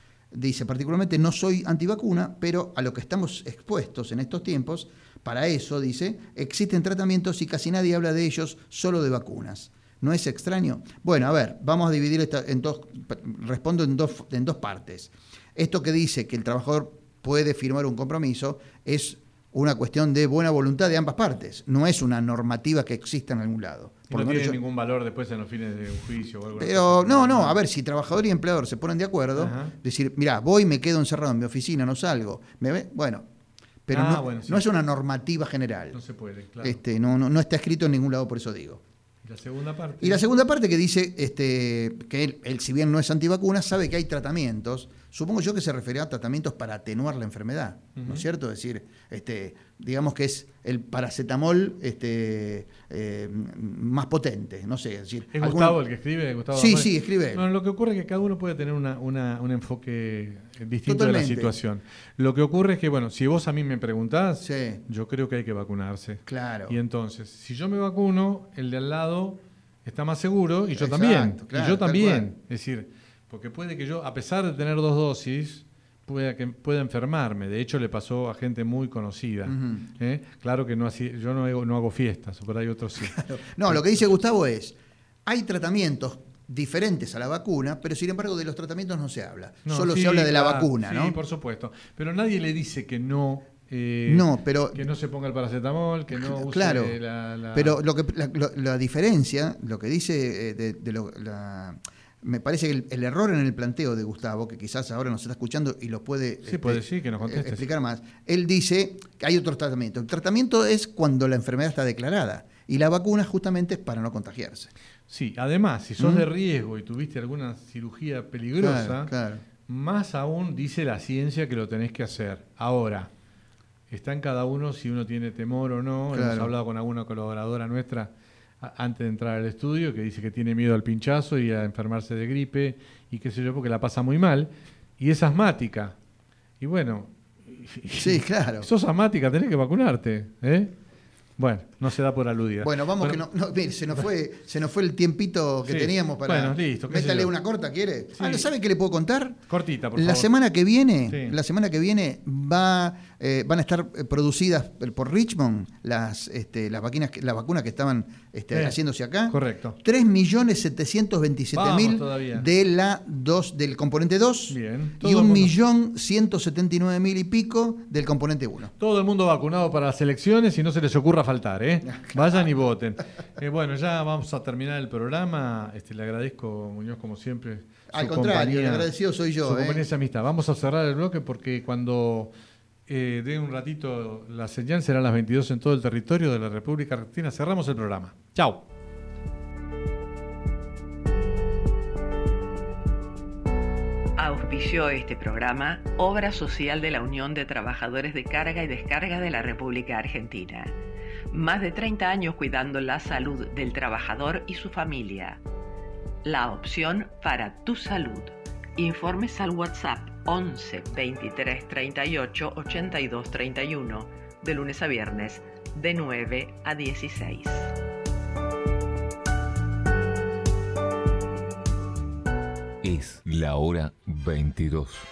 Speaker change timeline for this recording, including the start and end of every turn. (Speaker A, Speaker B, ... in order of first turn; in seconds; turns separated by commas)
Speaker A: 0.3-24.6, Speaker B: 24.1-27.6, Speaker A: 26.6-33.3, Speaker B: 29.4-29.7, Speaker A: 33.9-36.0, Speaker B: 33.9-34.6, Speaker B: 35.9-36.8, Speaker A: 36.6-38.8, Speaker B: 39.2-40.2, Speaker A: 40.0-55.8, Speaker B: 48.0-48.2, Speaker B: 55.3-84.0, Speaker A: 56.5-57.5, Speaker A: 60.9-61.5, Speaker A: 64.4-64.8, Speaker A: 66.2-66.8, Speaker A: 70.7-72.3, Speaker A: 79.4-79.9, Speaker A: 83.0-91.2, Speaker B: 89.7-97.8, Speaker A: 94.0-94.8, Speaker A: 96.1-97.0, Speaker A: 97.5-114.7, Speaker B: 106.4-107.7, Speaker B: 115.1-119.1, Speaker A: 116.0-116.2, Speaker A: 118.6-119.4, Speaker B: 119.7-123.1, Speaker B: 123.9-135.9, Speaker A: 126.1-126.5, Speaker B: 136.6-140.7, Speaker A: 137.9-138.7, Speaker B: 141.4-143.2, Speaker A: 142.6-149.4, Speaker B: 145.6-147.3, Speaker B: 148.2-148.5, Speaker B: 149.5-150.3, Speaker A: 149.9-168.7, Speaker B: 151.1-151.3, Speaker B: 158.5-158.8, Speaker B: 159.3-159.8, Speaker B: 161.5-162.5, Speaker B: 164.5-165.5, Speaker B: 168.8-178.9, Speaker A: 171.8-172.5, Speaker A: 177.9-179.8, Speaker B: 179.4-182.3, Speaker B: 182.9-188.6, Speaker C: 194.2-200.8, Speaker C: 201.3-205.4, Speaker C: 206.2-217.7, Speaker D: 222.8-225.0